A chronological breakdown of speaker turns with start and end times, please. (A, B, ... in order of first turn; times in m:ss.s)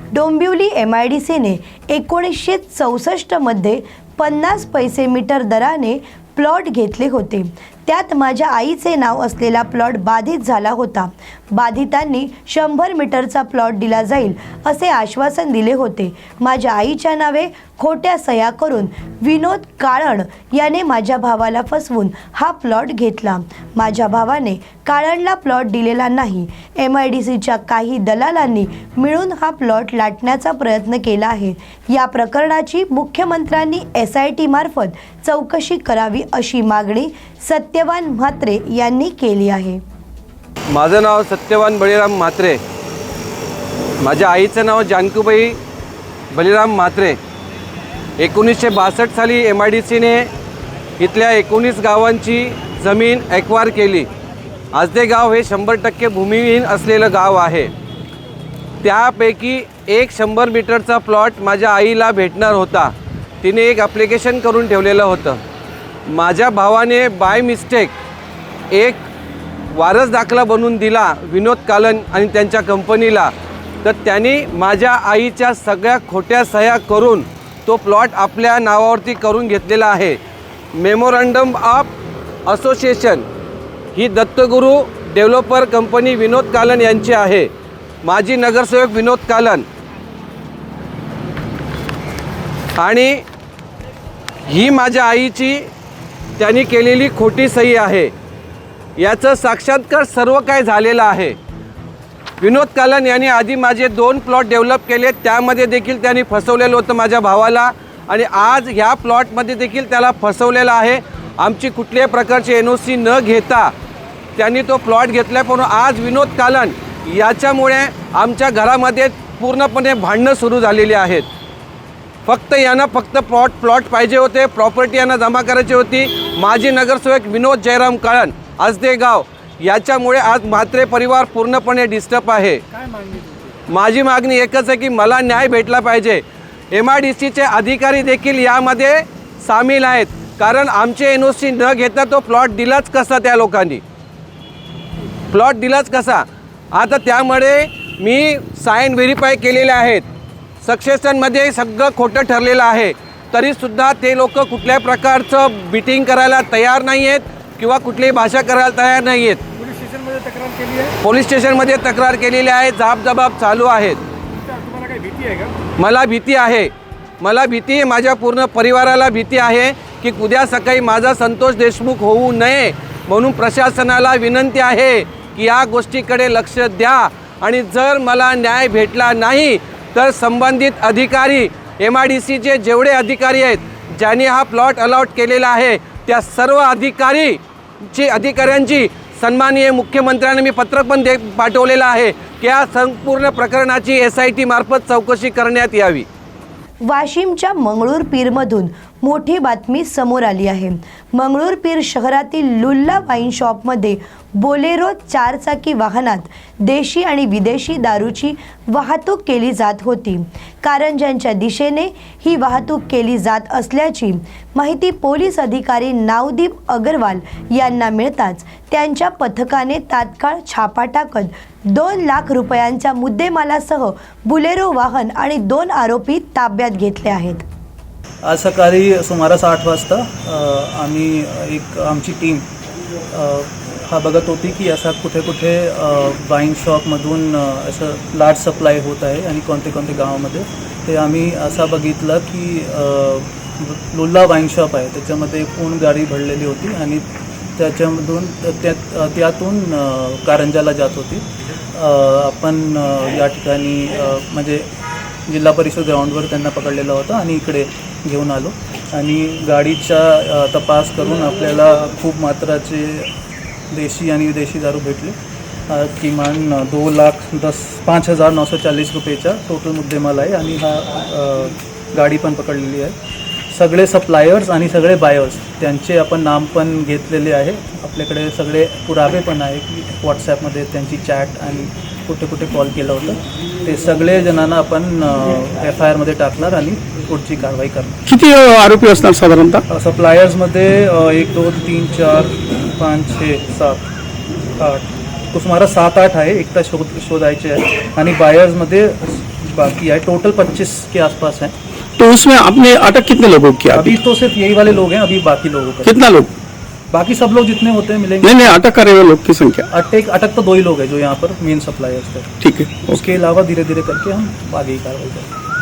0:00.1-0:39.8 A
0:40.7-0:42.6 B
0:44.0-0:45.6 B
0:46.3-0:47.2 B
0:48.2-0:50.3 B
0:51.0-0:54.1 B
0:54.7-0:57.7 B
0:58.8-1:05.4 B
1:06.1-1:08.0 B
1:08.7-1:09.1 B
1:09.8-1:20.2 B
1:20.8-1:21.9 B
1:22.5-1:23.3 B
1:24.0-1:27.5 B
1:28.0-1:29.7 B
1:32.8-1:33.2 B
1:34.5-1:35.7 B
1:36.4-1:38.1 B
1:39.0-1:41.4 B
1:42.4-1:53.7 B
1:54.4-2:01.3 B
2:02.3-2:12.6 B
2:12.8-2:13.5 C
2:13.7-2:23.8 B
2:25.3-2:30.1 B
2:30.6-2:39.4 B
2:39.6-2:40.9 C
2:41.0-2:44.0 B
2:44.4-2:45.5 C
2:45.8-3:07.4 B
3:07.9-3:16.1 B
3:16.8-3:47.4 A
3:48.2-3:52.5 D
3:53.1-4:07.0 D
4:07.6-4:14.7 D
4:15.3-4:23.1 D
4:23.7-4:25.2 D
4:25.7-4:33.0 D
4:33.5-4:48.0 D
4:48.1-4:49.6 E
4:49.7-4:53.8 D
4:54.6-5:01.5 D
5:02.0-5:04.0 E
5:03.7-5:06.0 D
5:05.8-5:06.3 E
5:06.9-5:08.4 D
5:08.2-5:09.7 E
5:09.7-5:12.3 D
5:12.4-5:13.0 E
5:12.9-5:15.3 D